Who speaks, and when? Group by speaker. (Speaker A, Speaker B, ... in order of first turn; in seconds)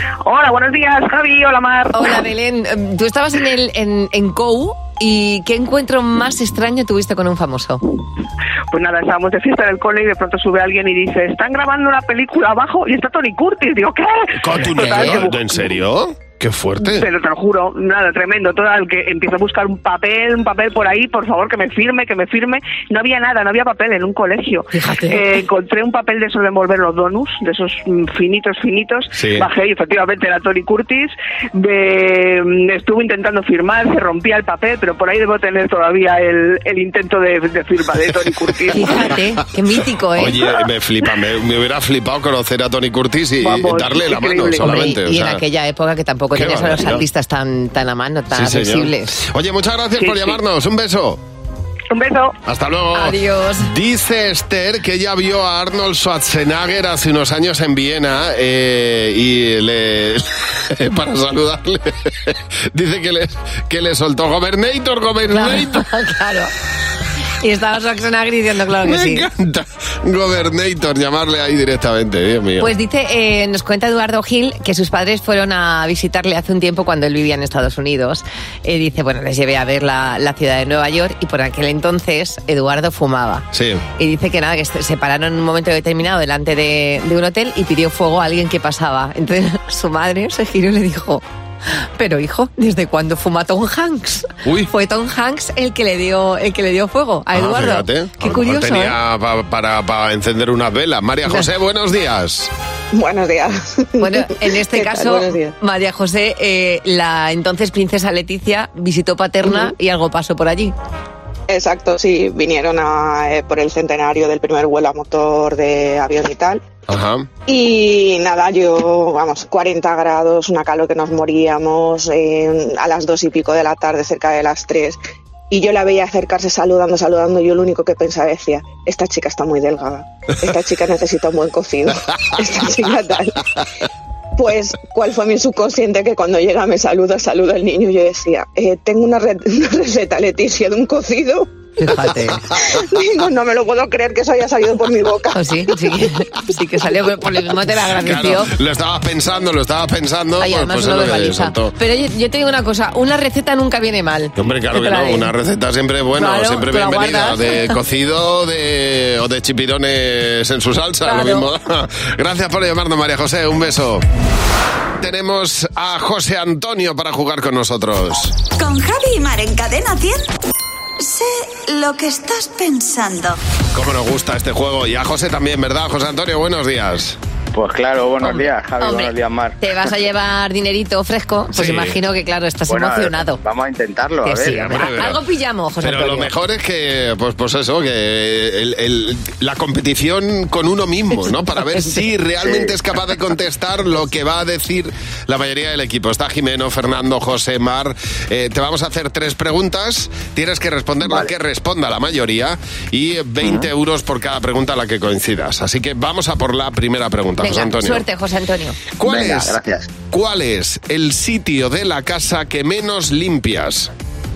Speaker A: 0.2-2.2, 8.7-15.7, 16.8-39.1, 43.4-44.8, 50.0-50.4, 51.9-52.4
Speaker B: 1.9-7.8, 14.8-15.2, 24.7-25.2, 38.7-40.4, 44.6-49.1, 52.9-53.7, 65.3-66.5, 67.4-69.3, 72.6-83.5, 84.0-91.2, 92.0-99.0, 104.0-110.7, 141.8-142.5, 145.3-148.5, 150.4-155.3, 156.2-157.7, 161.1-161.5, 178.2-183.4, 184.2-186.3, 191.2-192.1, 207.4-208.8
Speaker C: 14.4-17.1, 29.1-29.5, 40.2-45.4, 46.3-47.0, 48.3-51.2, 52.5-65.8, 68.8-72.7, 83.5-83.8, 94.5-94.7, 97.3-102.5, 116.9-117.3, 147.9-151.7, 154.4-164.1, 165.0-168.4, 173.7-177.2, 181.5-182.0, 184.5-185.2, 185.8-208.0, 209.0-213.9
Speaker D: 102.9-105.5, 109.4-109.7, 111.5-116.6, 117.5-133.4, 134.4-141.5, 142.6-145.5
Speaker E: 168.6-170.3, 171.0-173.4
Speaker F: 177.5-179.6, 182.7-184.9, 192.4-192.8, 201.0-201.3, 203.4-203.7, 209.0-209.9